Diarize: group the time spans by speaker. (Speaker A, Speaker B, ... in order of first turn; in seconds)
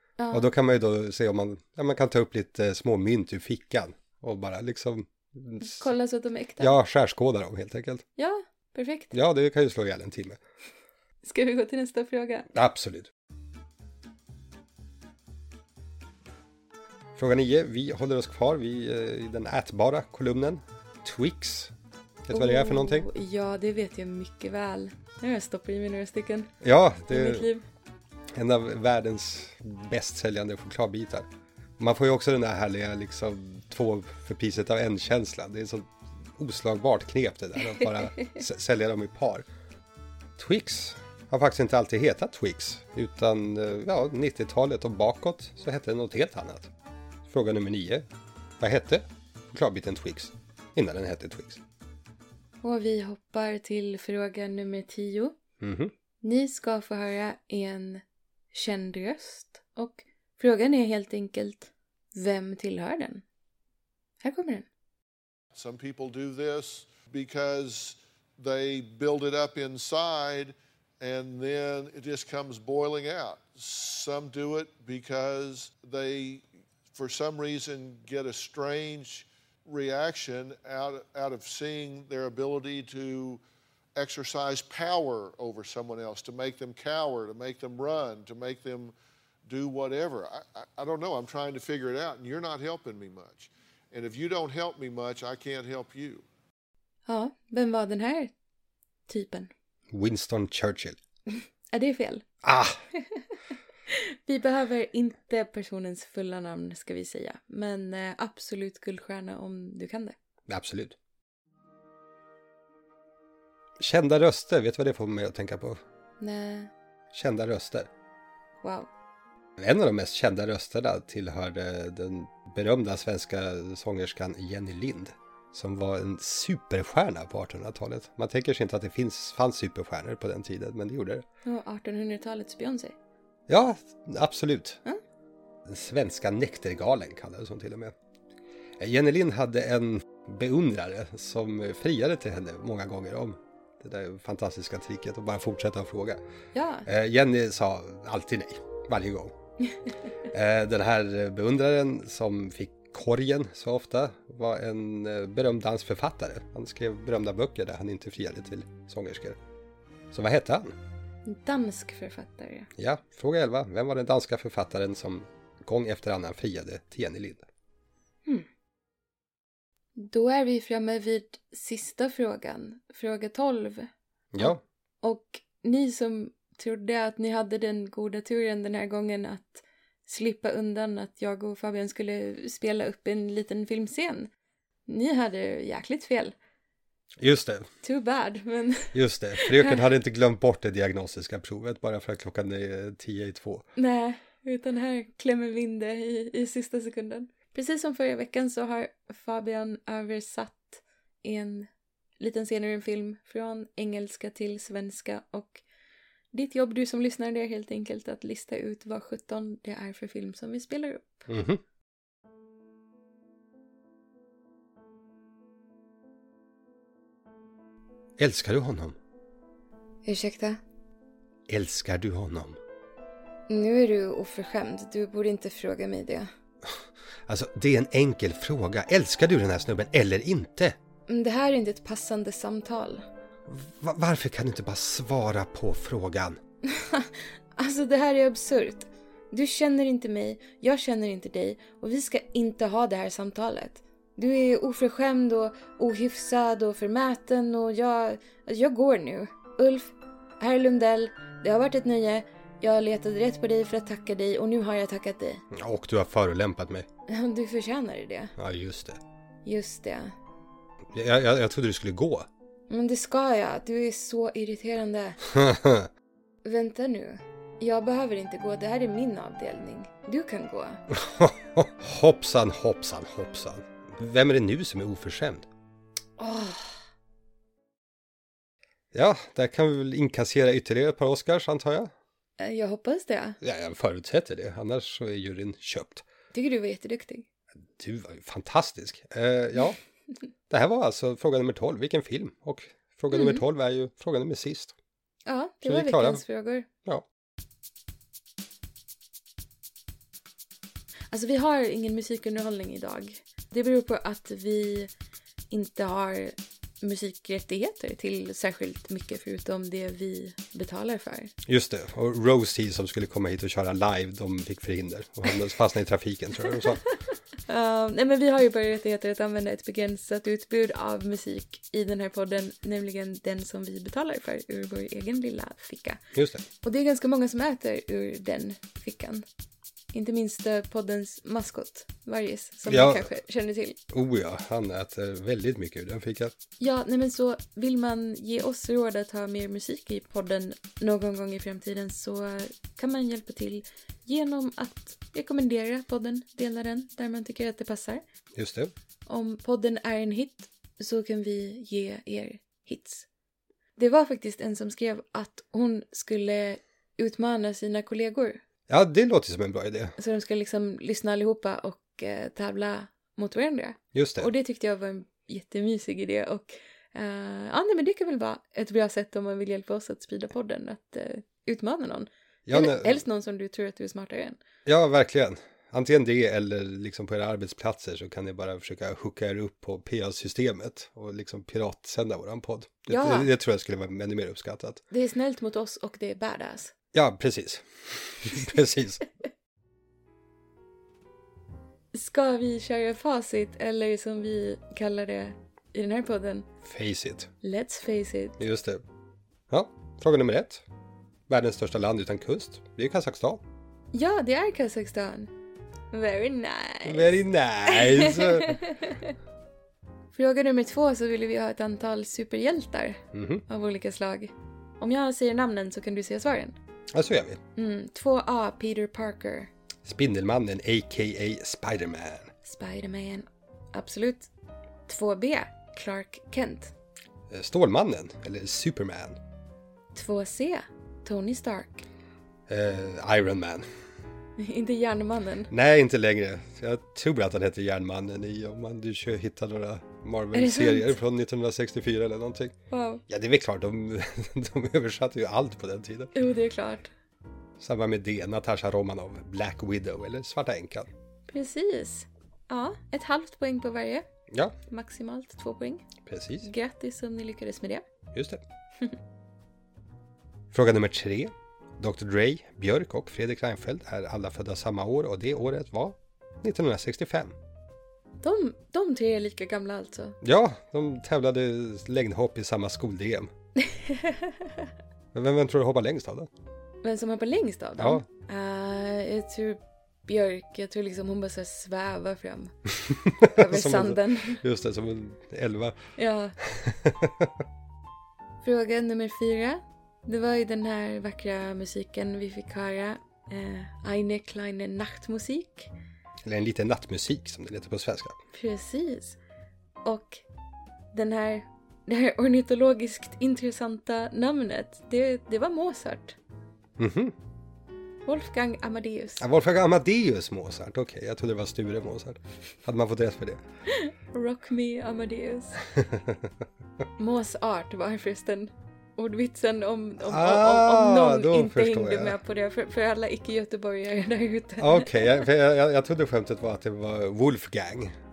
Speaker A: 0.2-0.5, 5.6-6.8, 8.2-9.1, 11.2-12.5, 22.3-26.5, 27.1-27.6, 37.8-38.4, 52.6-55.4, 56.2-63.2, 64.2-64.7, 97.1-98.3, 99.1-99.5, 101.7-102.2, 103.9-110.2, 116.2-116.7, 118.6-118.9, 131.4-132.9, 146.5-146.9, 161.2-162.7, 170.0-184.3, 184.9-186.3, 187.8-189.8, 193.8-201.7, 202.2-205.6, 206.3-211.3, 220.1-220.6, 223.5-226.3, 231.1-233.1, 236.7-255.4, 257.1-258.4, 259.4-260.1, 262.7-265.2, 266.4-270.8, 276.2-276.8, 282.4-283.4, 286.3-287.3, 293.1-293.4, 295.3-296.7, 301.1-304.9, 305.5-311.3, 317.5-326.0, 326.6-329.2, 329.9-333.8, 336.6-348.0, 349.1-353.1, 353.8-358.4, 360.0-374.4, 382.9-383.3, 384.9-386.7, 391.9-396.5, 397.4-398.4, 403.9-405.3, 405.9-409.1, 410.1-416.6, 417.6-419.5, 422.4-424.3, 424.9-426.7, 429.9-431.9, 434.4-435.5, 440.3-441.0, 442.7-443.0, 446.1-446.9, 451.3-454.1, 454.7-455.9, 456.4-457.8, 468.2-470.2, 473.6-474.5, 476.8-482.5, 483.3-484.4, 486.0-486.4, 488.4-495.7, 498.3-499.2, 499.8-500.2, 500.9-506.2, 508.1-509.2, 513.7-515.6, 517.0-525.3
Speaker B: 0.3-5.9, 6.6-8.0, 9.1-10.4, 12.5-13.1, 17.2-21.7, 22.3-23.1, 26.6-27.5, 28.3-31.3, 31.8-39.5, 40.4-46.7, 47.3-48.1, 48.6-51.6, 55.6-55.9, 99.9-101.0, 102.4-102.8, 110.5-111.0, 113.8-115.8, 117.1-117.9, 119.6-131.2, 133.5-134.8, 135.7-137.9, 138.8-146.2, 146.9-149.3, 150.3-159.4, 160.1-160.8, 162.8-167.5, 174.3-174.6, 187.2-187.7, 188.9-193.7, 211.3-211.6, 218.2-219.0, 221.5-222.6, 226.7-230.8, 233.5-236.4, 255.5-256.9, 258.4-259.0, 260.9-262.3, 265.3-265.9, 270.9-275.5, 278.9-281.9, 283.4-286.0, 287.8-289.8, 290.5-294.7, 295.6-296.2, 311.5-316.8, 326.1-326.4, 332.7-333.1, 333.9-336.3, 348.4-348.7, 358.7-360.0, 363.9-364.3, 372.5-373.0, 374.7-384.8, 386.9-389.0, 396.6-397.3, 398.4-398.8, 399.5-400.6, 401.3-403.4, 406.9-408.6, 413.1-413.4, 416.9-417.4, 419.9-422.3, 427.3-429.2, 432.5-433.6, 435.5-442.6, 443.1-446.1, 447.6-450.9, 456.0-456.5, 458.1-458.4, 460.5-467.4, 470.2-473.3, 475.1-476.3, 477.8-478.0, 482.9-485.8, 486.4-487.3, 496.2-498.2, 506.8-507.1, 509.2-513.4, 515.7-516.3, 520.1-522.2, 524.6-527.9
Speaker C: 65.5-83.4, 84.0-88.9, 89.5-96.2